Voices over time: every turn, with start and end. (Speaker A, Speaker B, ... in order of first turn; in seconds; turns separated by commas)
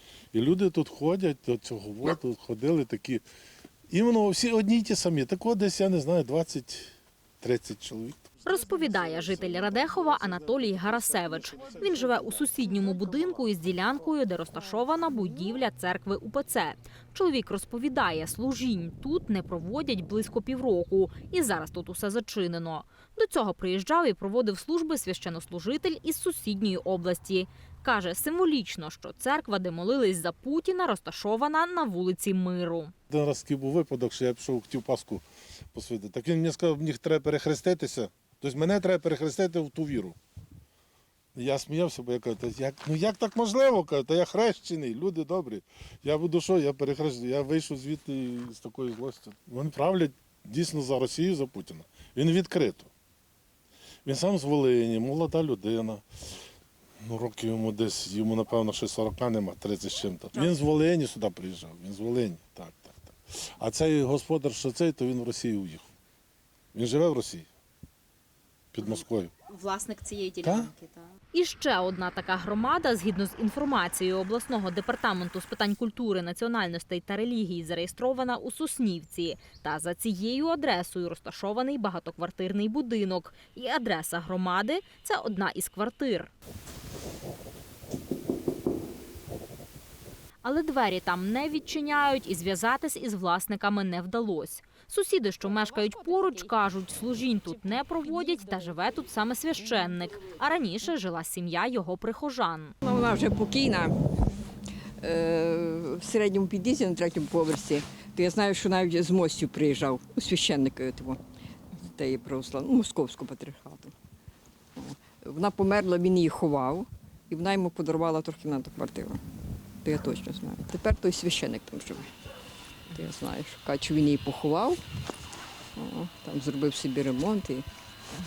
Speaker A: 0.3-3.2, Speaker A: 3.9-8.4, Speaker B: 8.4-32.9, Speaker A: 33.1-40.1, Speaker A: 41.3-52.9, Speaker A: 54.0-56.0, Speaker A: 57.0-65.8, Speaker A: 66.7-67.5, Speaker A: 68.7-69.3, Speaker C: 69.5-71.1, Speaker A: 70.4-70.7, Speaker B: 71.3-86.3, Speaker B: 90.4-102.8, Speaker C: 95.9-96.5, Speaker C: 98.0-98.6, Speaker D: 102.8-104.0, Speaker D: 105.0-111.2, Speaker D: 111.8-113.9, Speaker D: 114.8-119.2, Speaker D: 119.8-122.1, Speaker D: 122.9-124.8, Speaker D: 125.8-127.7